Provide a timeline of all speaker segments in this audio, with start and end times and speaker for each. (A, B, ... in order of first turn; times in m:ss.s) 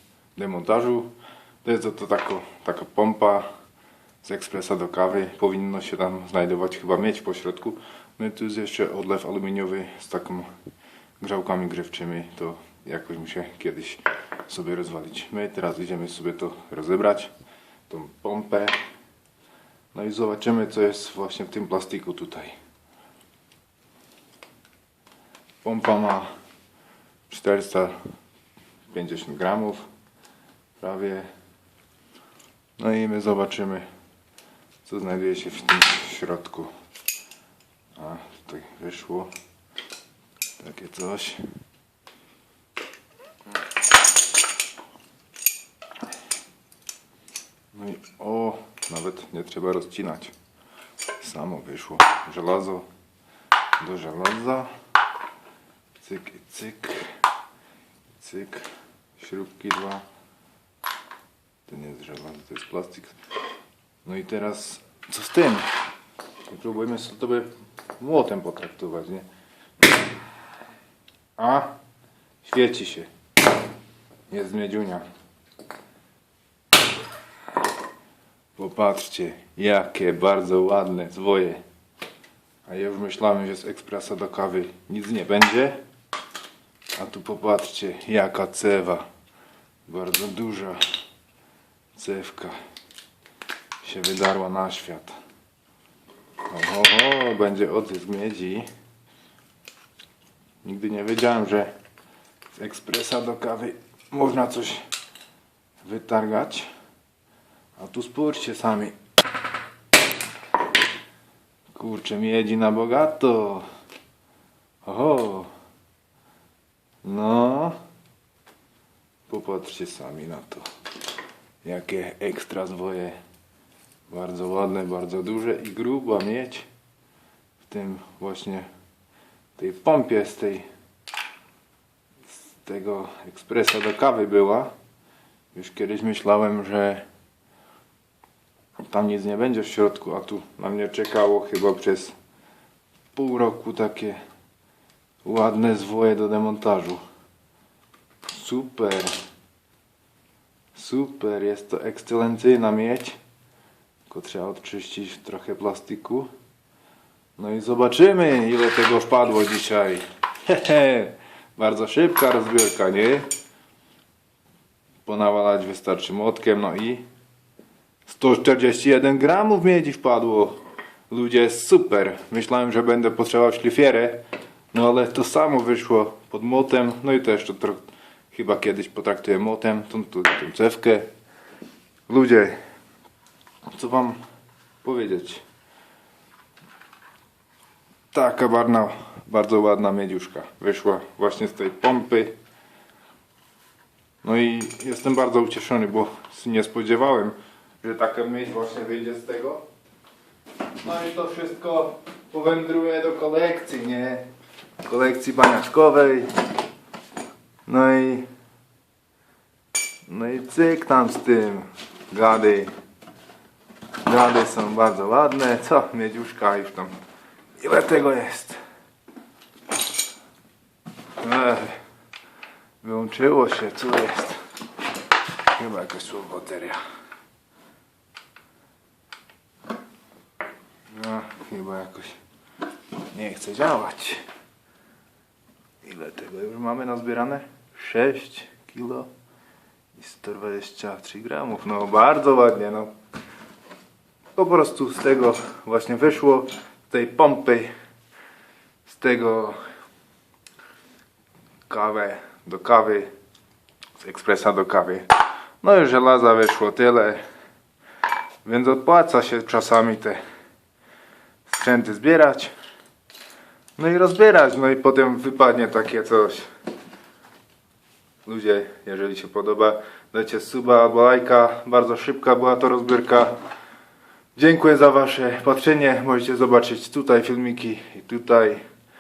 0:00.4-0:01.1 A
0:01.6-0:03.5 A
0:04.2-0:10.5 A
0:11.2-0:17.3 A
0:17.9-0:18.8 A
0:19.9-0:22.6 A
0:25.6-0:26.3 A
0:27.3-0:28.0 A
0:28.9-0:29.8 A
0:30.8-0:31.3 A
0:32.8-0:33.9 A
0:34.8-0:36.7 A
0:38.0-0:39.3 A
0:40.6-0:41.4 A
0:47.7-0:50.3 A
0:51.2-0:52.9 A
0:53.8-0:54.7 A
0:56.0-0:57.2 A
0:58.2-0:58.7 A
0:59.2-1:00.0 A
1:01.7-1:03.2 A
1:04.0-1:05.7 A
1:06.5-1:09.3 A
1:11.4-1:11.7 A
1:12.4-1:13.1 A
1:14.3-1:15.0 A
1:18.6-1:21.6 A
1:22.7-1:25.8 A
1:27.0-1:29.1 A
1:29.9-1:30.8 A
1:32.0-1:32.6 A
1:33.8-1:35.2 A
1:36.4-1:38.7 A
1:40.6-1:41.7 A
1:42.6-1:44.8 A
1:45.8-1:46.7 A
1:47.8-1:49.0 A
1:51.7-1:53.7 A
1:54.8-1:55.5 A
1:57.0-1:57.8 A
1:59.3-2:00.7 A
2:01.6-2:03.2 A
2:04.1-2:06.7 A
2:07.6-2:08.7 A
2:09.6-2:10.7 A
2:12.3-2:14.7 A
2:15.5-2:17.0 A
2:18.8-2:22.2 A
2:23.1-2:24.2 A
2:25.2-2:27.0 A
2:28.3-2:29.1 A
2:30.8-2:33.2 A
2:34.1-2:36.3 A
2:37.4-2:43.3 A
2:45.0-2:47.0 A
2:48.1-3:01.1 A
3:02.1-3:02.6 A
3:03.7-3:04.2 A
3:04.8-3:05.4 A
3:08.1-3:12.4 A
3:14.2-3:19.6 A
3:20.8-3:24.3 A
3:24.8-3:26.3 A
3:27.7-3:28.3 A
3:30.1-3:32.7 A
3:34.0-3:37.0 A
3:37.6-3:38.6 A
3:41.2-3:41.8 A
3:42.8-3:44.4 A
3:45.5-3:46.8 A
3:50.9-3:52.2 A
3:53.1-3:54.2 A
3:55.8-3:59.1 A
4:00.0-4:02.9 A
4:04.4-4:07.7 A
4:08.8-4:09.6 A
4:11.7-4:13.1 A
4:14.0-4:15.1 A
4:15.6-4:17.2 A
4:18.4-4:20.2 A
4:21.5-4:22.5 A
4:23.8-4:26.5 A
4:28.2-4:33.3 A
4:34.4-4:38.6 A